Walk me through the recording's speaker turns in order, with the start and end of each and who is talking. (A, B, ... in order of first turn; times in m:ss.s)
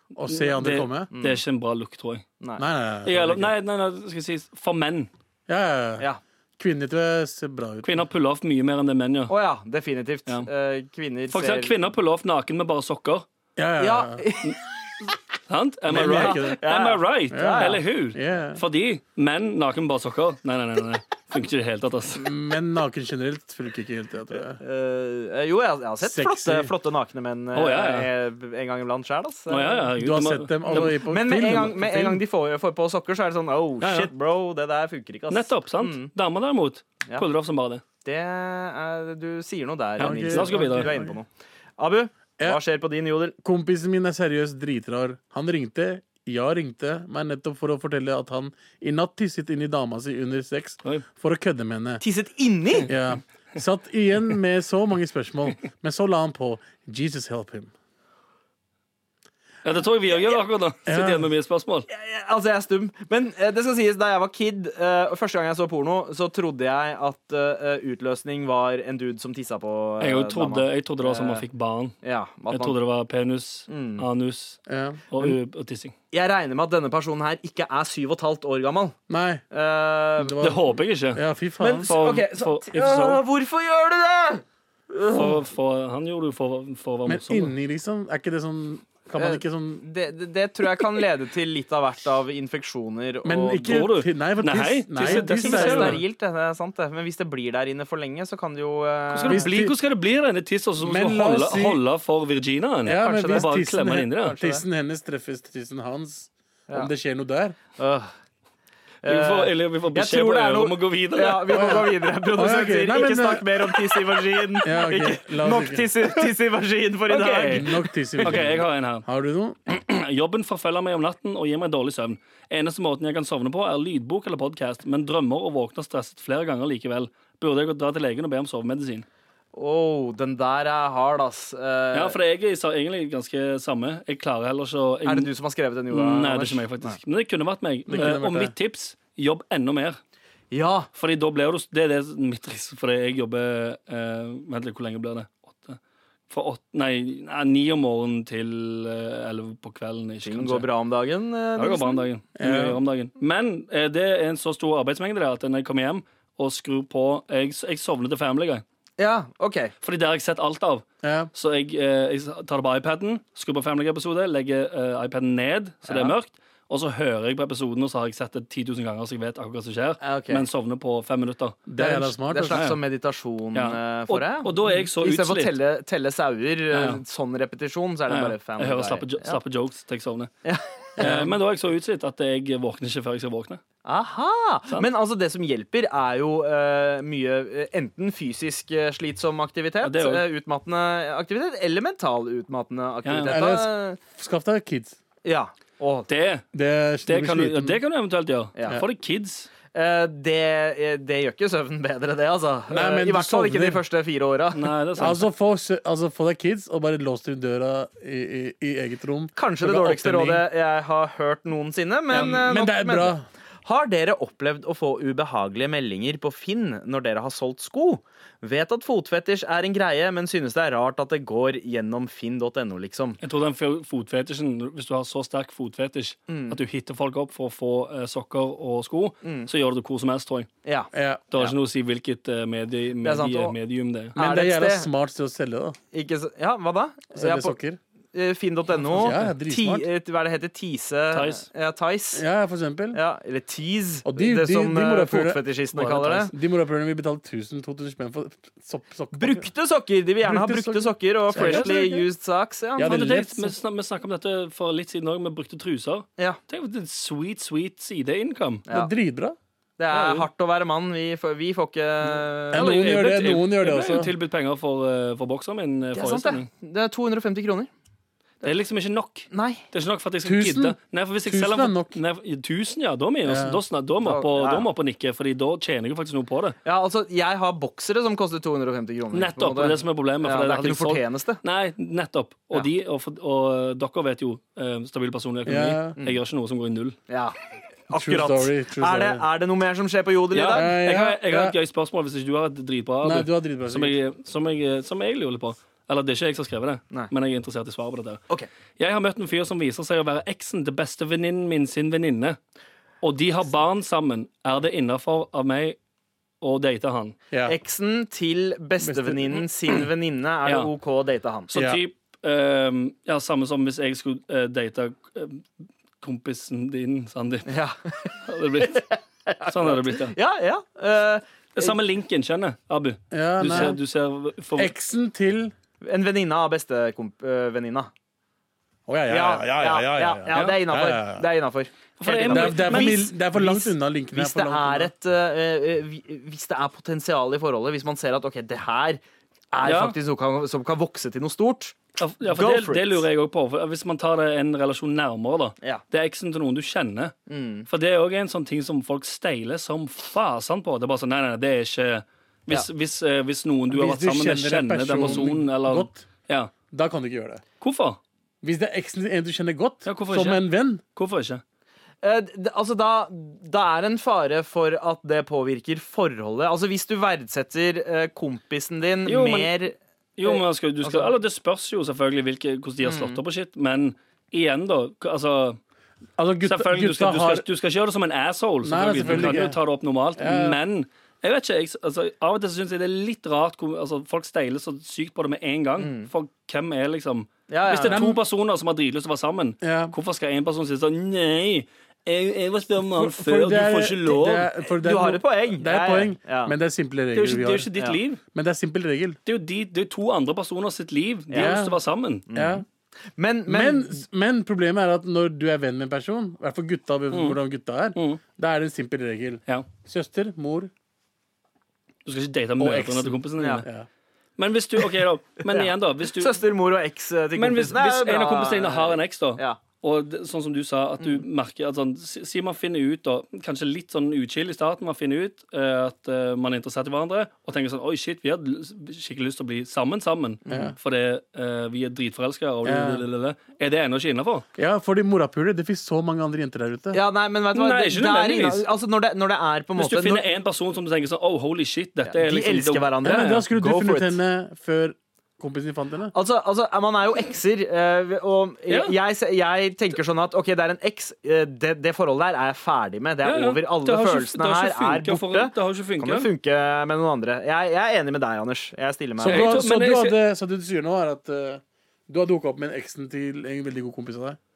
0:00.1-0:01.1 A
0:00.3-0:02.2 B
0:01.1-0:01.4 C
0:02.6-0:03.5 A
0:03.0-0:05.1 B
0:05.5-0:06.0 A
0:06.6-0:07.9 A
0:07.8-0:09.3 B
0:09.3-0:11.7 C
0:11.3-0:13.2 B
0:13.6-0:14.2 A
0:13.8-0:14.6 C
0:15.5-0:22.2 B
0:15.9-0:16.6 A
0:15.9-0:17.8 C
0:17.3-0:18.6 A
0:22.1-0:24.6 A
0:24.5-0:29.8 C
0:26.0-0:26.7 A
0:27.5-0:28.1 B
0:29.5-0:30.9 B
0:30.0-0:32.2 A
0:30.7-0:36.1 C
0:33.8-0:34.1 B
0:35.3-0:37.8 B
0:38.0-0:43.3 C
0:40.0-0:40.9 B
0:40.0-0:41.1 A
0:43.4-0:52.0 A
0:52.0-0:52.9 C
0:52.9-0:57.7 A
0:59.6-1:01.9 B
1:00.8-1:01.3 A
1:01.9-1:11.4 C
1:10.0-1:12.0 B
1:12.0-1:12.8 C
1:12.5-1:15.9 B
1:13.7-1:14.0 C
1:14.7-1:15.4 A
1:16.1-1:19.0 C
1:19.1-1:19.4 A
1:19.5-1:20.4 C
1:20.2-1:21.9 A
1:20.4-1:21.2 B
1:21.6-1:25.4 C
1:21.8-1:23.2 B
1:25.1-1:27.5 B
1:27.0-1:29.8 A
1:29.2-1:33.8 C
1:33.2-1:36.0 A
1:33.6-1:36.0 B
1:35.0-1:39.5 C
1:39.1-1:44.4 B
1:39.3-1:39.7 A
1:40.8-1:41.8 A
1:42.8-1:47.6 A
1:42.8-1:43.5 C
1:44.2-1:44.6 C
1:47.8-1:48.1 C
1:49.0-1:57.7 C
1:49.0-1:51.8 B
1:51.5-1:54.1 A
1:54.6-1:56.2 A
1:57.1-1:59.0 B
1:57.5-1:59.6 A
1:59.7-2:09.0 B
2:09.5-2:12.2 C
2:11.9-2:15.3 B
2:15.0-2:17.0 C
2:15.9-2:20.0 B
2:17.9-2:18.5 A
2:20.5-2:20.9 C
2:20.9-2:25.8 B
2:26.3-2:30.7 B
2:30.2-2:32.0 C
2:31.6-2:38.6 B
2:32.4-2:32.8 A
2:39.0-2:39.7 C
2:39.8-2:51.8 B
2:41.0-2:41.3 A
2:45.8-2:46.1 C
2:50.0-2:50.5 C
2:51.7-2:52.6 A
2:51.8-2:59.4 C
2:52.5-2:52.8 B
2:53.5-2:55.6 B
2:56.7-2:57.0 B
2:58.1-3:00.3 B
3:00.4-3:01.3 C
3:01.0-3:01.3 A
3:01.0-3:03.6 B
3:03.8-3:14.0 C
3:09.8-3:10.2 B
3:13.0-3:13.3 B
3:13.3-3:15.0 A
3:15.2-3:16.1 C
3:16.1-3:16.4 B
3:16.5-3:17.8 A
3:17.0-3:19.5 B
3:18.6-3:18.8 C
3:19.7-3:24.6 C
3:22.7-3:23.8 A
3:24.5-3:25.2 B
3:25.0-3:30.4 A
3:29.4-3:43.2 C
3:32.1-3:33.2 A
3:43.2-3:50.5 B
3:46.3-3:46.6 C
3:49.2-3:49.5 C
3:50.6-3:51.6 C
3:50.9-3:51.2 A
3:51.3-3:54.2 B
3:53.0-3:53.5 C
3:54.2-3:54.9 C
3:54.2-3:55.8 A
3:55.9-3:57.6 C
3:57.1-3:57.8 A
3:58.1-4:02.2 C
3:58.9-3:59.3 B
3:59.0-3:59.8 A
4:01.1-4:01.4 B
4:02.1-4:03.0 A
4:02.9-4:06.3 C
4:04.0-4:09.5 A
4:09.1-4:13.0 C
4:10.2-4:12.0 A
4:11.3-4:11.7 B
4:12.8-4:13.5 A
4:12.8-4:18.6 B
4:18.7-4:19.4 A
4:19.8-4:23.1 C
4:19.9-4:20.3 B
4:22.5-4:24.1 A
4:22.5-4:26.5 B
4:25.9-4:27.7 C
4:28.4-4:36.6 B
4:29.3-4:29.6 C
4:30.2-4:31.9 A
4:33.2-4:33.6 A
4:34.0-4:34.6 C
4:36.6-4:41.4 C
4:39.1-4:47.0 B
4:45.4-4:46.0 A
4:47.1-4:47.4 C
4:47.9-4:50.7 C
4:47.9-4:49.2 A
4:50.3-4:58.2 B
4:50.5-4:51.5 A
4:53.0-4:54.0 A
4:58.8-5:02.4 B
5:03.0-5:05.8 B
5:06.4-5:07.2 B
5:07.4-5:11.5 C
5:08.8-5:09.4 A
5:11.5-5:15.5 B
5:11.5-5:11.8 A
5:16.0-5:17.5 B
5:17.5-5:17.9 C
5:18.2-5:18.9 B
5:18.6-5:21.7 C
5:19.4-5:20.2 B
5:21.5-5:24.7 B
5:23.1-5:23.8 A
5:24.6-5:25.5 A
5:25.8-5:27.9 C
5:28.9-5:31.2 A
5:29.1-5:39.0 C
5:30.3-5:30.6 B
5:32.0-5:33.1 B
5:32.3-5:34.9 A
5:39.5-5:43.0 C
5:39.6-5:39.9 B
5:42.0-5:47.2 B
5:47.3-5:47.7 C
5:47.7-5:56.5 B
5:53.7-5:56.0 A
5:56.7-5:57.4 A
5:57.6-5:58.0 B
5:58.4-6:00.8 A
5:59.8-6:00.4 B
6:00.9-6:01.4 B
6:02.0-6:11.1 C
6:09.0-6:09.5 B
6:10.2-6:15.6 B
6:12.8-6:13.2 C
6:16.2-6:17.4 A
6:16.4-6:34.5 B
6:18.6-6:19.6 A
6:20.2-6:20.6 A
6:25.8-6:26.1 C
6:27.5-6:28.1 C
6:27.8-6:28.2 A
6:29.6-6:29.9 A
6:32.9-6:37.7 A
6:34.8-6:36.5 C
6:37.1-6:38.2 B
6:38.3-6:39.2 A
6:39.2-6:42.2 B
6:41.3-6:41.6 C
6:41.3-6:41.7 A
6:42.3-6:42.6 C
6:42.3-6:42.6 A
6:43.2-6:44.0 C
6:43.5-6:50.7 A
6:47.1-6:47.4 B
6:47.9-6:48.2 B
6:52.0-6:53.7 B
6:52.6-6:53.9 A
6:53.4-6:53.6 C
6:54.4-6:56.4 B
6:55.4-6:59.6 C
6:57.3-7:14.4 B
7:10.4-7:10.7 C
7:10.5-7:10.7 A
7:12.6-7:13.0 A
7:14.6-7:17.0 A
7:16.9-7:20.2 C
7:17.5-7:18.6 B
7:19.8-7:23.1 B
7:22.0-7:24.2 C
7:23.0-7:26.1 A
7:26.1-7:39.6 C
7:28.7-7:28.9 B
7:33.2-7:36.3 B
7:39.2-7:44.4 A
7:39.2-7:40.2 B